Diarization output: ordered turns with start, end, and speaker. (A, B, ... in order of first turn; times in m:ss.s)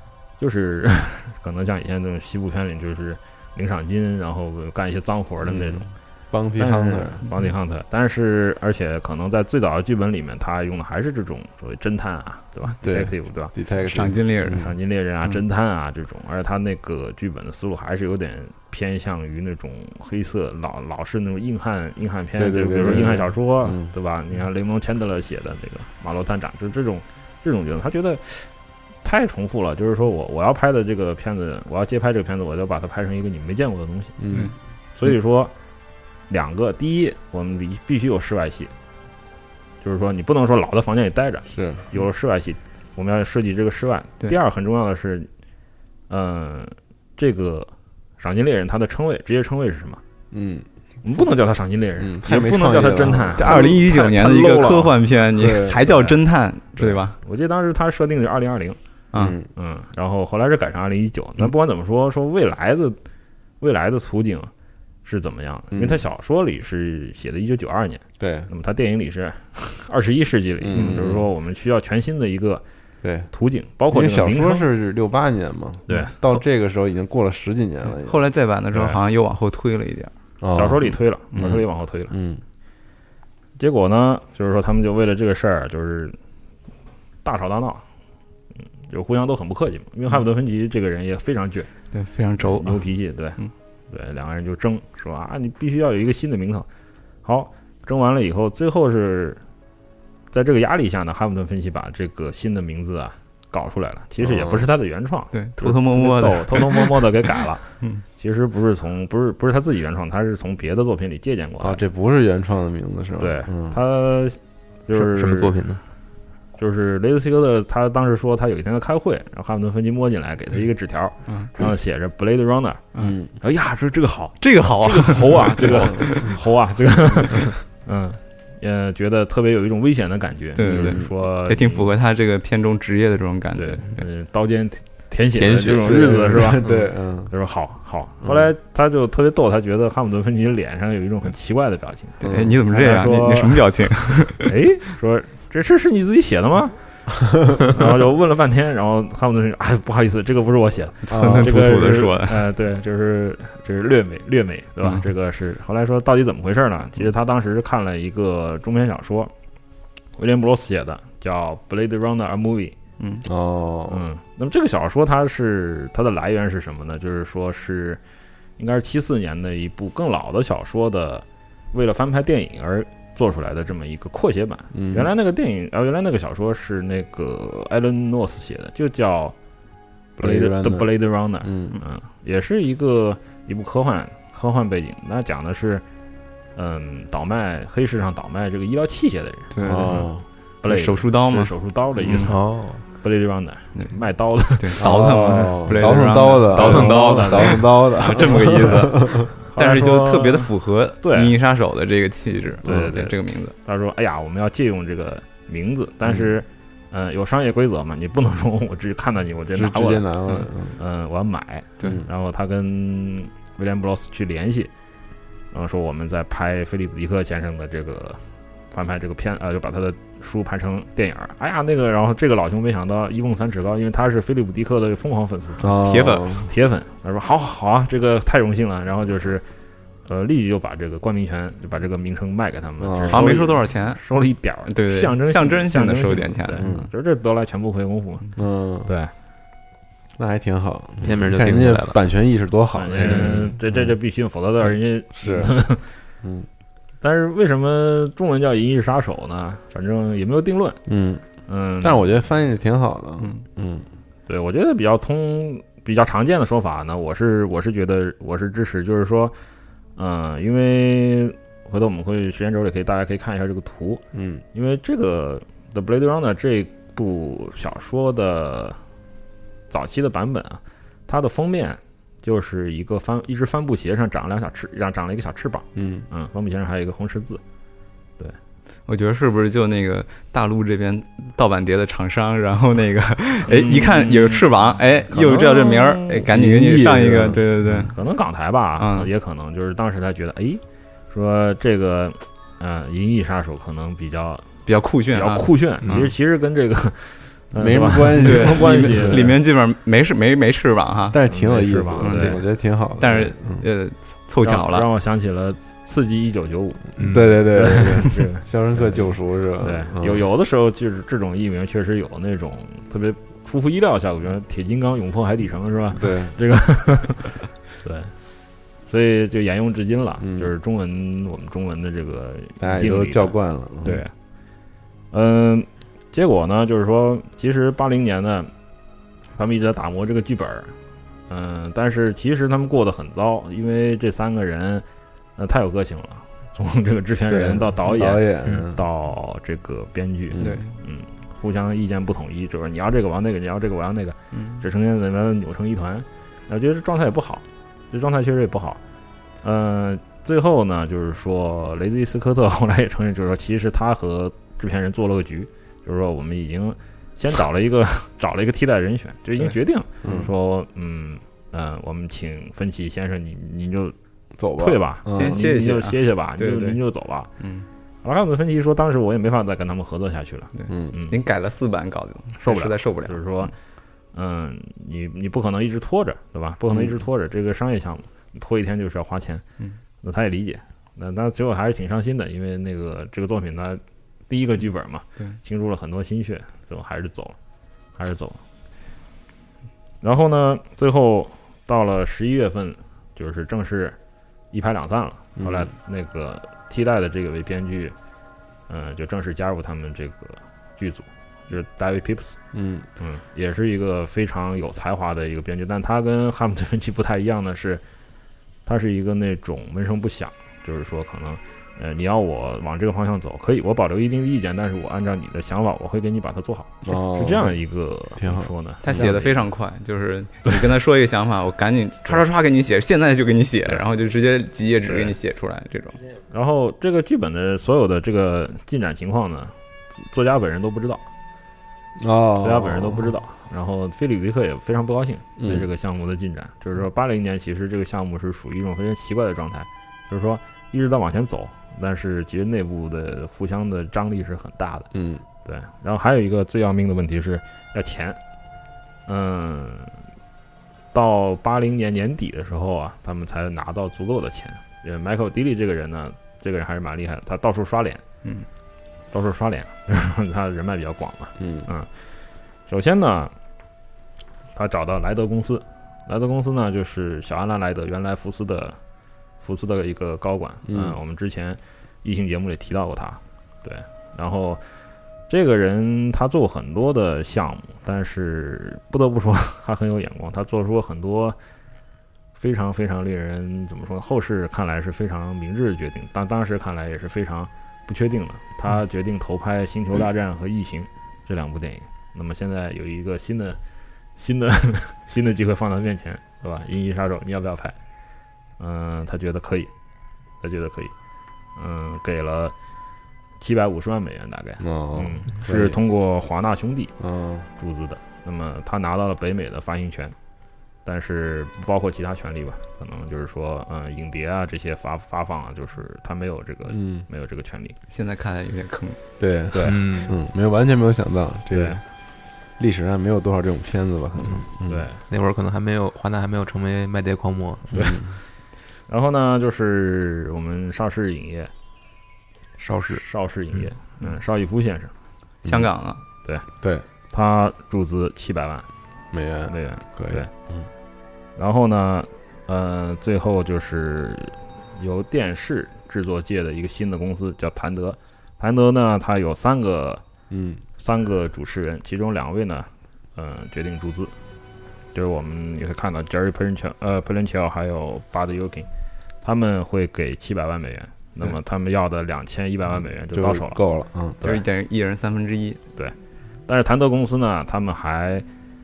0:00.4-0:05.9 A
0:05.5-0:07.2 B
0:06.6-0:13.5 A
0:12.8-0:14.7 B
0:13.8-0:14.7 C
0:14.6-0:28.5 A
0:22.4-0:23.9 B
0:29.0-0:34.2 A
0:34.2-0:34.5 B
0:35.0-0:35.5 A
0:36.3-0:38.7 A
0:39.8-0:45.3 A
0:41.5-0:41.8 B
0:46.1-0:50.0 A
0:50.3-0:50.6 B
0:51.0-0:55.0 A
0:52.0-0:53.8 B
0:53.4-0:57.2 C
0:55.4-0:55.9 B
0:55.8-0:56.2 A
0:56.8-0:58.8 A
0:59.1-0:59.4 C
0:59.1-0:59.5 B
0:59.5-1:03.0 A
1:03.6-1:04.5 A
1:05.0-1:12.6 A
1:05.7-1:06.0 B
1:08.2-1:08.5 B
1:10.6-1:11.3 B
1:13.0-1:13.3 B
1:13.3-1:14.7 A
1:13.9-1:18.2 B
1:15.9-1:16.1 A
1:18.0-1:20.1 C
1:18.7-1:19.0 A
1:20.4-1:22.4 B
1:20.5-1:22.1 A
1:23.6-1:26.2 A
1:27.2-1:27.8 A
1:28.8-1:31.7 A
1:31.9-1:32.8 C
1:32.4-1:33.4 A
1:33.9-1:36.7 A
1:37.2-1:39.4 A
1:40.3-1:51.8 A
1:44.2-1:44.7 B
1:45.3-1:47.2 C
1:51.6-1:53.8 B
1:53.2-1:55.5 A
1:54.9-1:55.8 D
1:56.6-2:02.9 A
2:03.0-2:03.3 B
2:03.4-2:11.9 A
2:04.4-2:06.4 C
2:10.5-2:14.0 C
2:10.6-2:11.1 B
2:13.5-2:16.7 A
2:15.4-2:16.4 D
2:15.4-2:17.3 B
2:17.3-2:26.7 A
2:18.2-2:18.5 B
2:22.2-2:24.5 C
2:22.2-2:22.6 B
2:27.6-2:39.3 A
2:31.0-2:32.4 C
2:31.1-2:31.8 B
2:40.2-2:42.8 A
2:43.0-2:43.2 C
2:43.2-2:44.0 B
2:43.9-2:48.0 A
2:48.6-2:59.3 A
2:54.7-2:55.1 B
3:00.2-3:00.9 B
3:00.2-3:05.8 A
3:01.4-3:01.8 B
3:06.5-3:10.0 A
3:09.5-3:10.1 C
3:09.6-3:10.2 B
3:10.6-3:12.4 A
3:10.6-3:12.3 C
3:12.2-3:12.8 D
3:13.0-3:18.3 A
3:14.6-3:23.5 C
3:14.8-3:19.3 B
3:19.5-3:20.5 A
3:21.0-3:21.3 A
3:22.6-3:30.0 A
3:22.6-3:22.9 B
3:29.5-3:30.8 B
3:30.8-3:34.7 A
3:31.8-3:32.1 B
3:35.5-3:45.8 A
3:45.6-3:46.5 B
3:45.8-3:46.4 C
3:46.4-3:49.4 A
3:50.0-3:58.3 A
3:52.8-3:53.4 B
3:53.1-3:54.0 C
3:54.7-3:56.8 C
3:56.6-3:56.9 B
3:58.4-3:58.9 B
3:58.8-3:59.1 A
4:00.2-4:03.9 B
4:01.0-4:02.0 D
4:02.7-4:05.9 A
4:05.1-4:05.5 B
4:06.2-4:06.5 B
4:07.0-4:10.8 A
4:10.9-4:11.2 B
4:11.5-4:12.0 A
4:11.8-4:13.9 B
4:14.3-4:19.4 A
4:20.0-4:24.0 A
4:24.1-4:24.4 B
4:24.5-4:28.8 A
4:29.7-4:37.4 A
4:35.8-4:36.1 B
4:38.9-4:47.9 C
4:43.5-4:46.2 A
4:46.3-4:47.9 B
4:47.8-4:59.4 A
4:48.8-4:49.1 C
4:54.6-4:56.1 C
4:57.6-4:59.4 B
4:58.2-5:01.2 C
5:01.1-5:03.6 B
5:01.3-5:02.4 A
5:02.0-5:02.4 C
5:03.0-5:04.9 C
5:04.4-5:09.0 A
5:07.0-5:07.5 D
5:07.0-5:10.2 B
5:09.6-5:18.1 A
5:15.9-5:16.3 B
5:18.9-5:24.1 A
5:20.2-5:20.5 B
5:22.6-5:24.0 B
5:25.1-5:28.5 A
5:29.4-5:30.7 A
5:31.3-5:34.8 A
5:35.4-5:48.8 A
5:37.3-5:38.8 B
5:40.3-5:40.6 B
5:40.4-5:40.7 C
5:44.3-5:44.6 C
5:49.4-6:04.0 A
6:00.0-6:00.3 B
6:04.4-6:05.4 B
6:04.6-6:07.3 A
6:05.1-6:06.8 C
6:07.4-6:07.6 C
6:08.0-6:11.2 A
6:10.5-6:13.5 C
6:10.7-6:11.0 B
6:12.4-6:13.5 A
6:14.1-6:19.4 A
6:20.0-6:27.4 A
6:28.0-6:28.4 A
6:30.0-6:34.0 A
6:34.5-6:37.9 A
6:35.4-6:35.7 B
6:38.7-6:42.4 A
6:42.5-6:42.9 B
6:43.0-6:47.8 A
6:48.6-6:59.4 A
6:56.8-6:57.6 B
6:58.2-6:59.1 B
6:58.8-7:06.0 C
7:04.8-7:05.2 A
7:06.3-7:11.0 A
7:12.0-7:13.1 B
7:12.4-7:24.9 A
7:15.4-7:15.6 B
7:24.9-7:25.2 B
7:25.4-7:28.2 A
7:29.1-7:30.0 A
7:30.9-7:38.0 A
7:39.1-7:41.9 A
7:41.4-7:41.7 B
7:42.7-7:43.3 A
7:44.5-7:48.8 A
7:49.4-7:54.6 A
7:50.7-7:51.0 B
7:55.3-8:01.4 A
8:02.4-8:13.6 A
8:14.2-8:17.8 A
8:18.6-8:19.7 A
8:20.4-8:20.9 A
8:21.6-8:22.5 A
8:23.4-8:26.9 A
8:24.6-8:25.8 B
8:27.0-8:27.5 B
8:27.6-8:30.1 A
8:30.8-8:37.8 A
8:36.7-8:37.1 B
8:37.9-8:39.0 C
8:39.2-8:41.8 B
8:39.5-8:39.8 A
8:39.6-8:40.2 D
8:41.5-8:41.8 A
8:42.6-8:44.8 B
8:44.2-8:44.5 D
8:44.6-8:45.0 A
8:45.1-8:47.8 D
8:47.7-8:48.1 B
8:48.9-8:51.5 A
8:52.6-8:53.0 D
8:52.8-8:54.9 A
8:55.4-8:55.7 B
8:55.4-8:56.0 C
8:56.6-8:56.8 B
8:57.1-8:58.7 A
8:59.1-9:00.7 B
8:59.5-9:00.3 A
9:01.4-9:10.0 A
9:10.3-9:10.6 B
9:10.8-9:14.1 A
9:14.9-9:18.7 A
9:19.2-9:23.6 A
9:23.1-9:24.2 B
9:24.2-9:25.6 C
9:26.5-9:28.2 A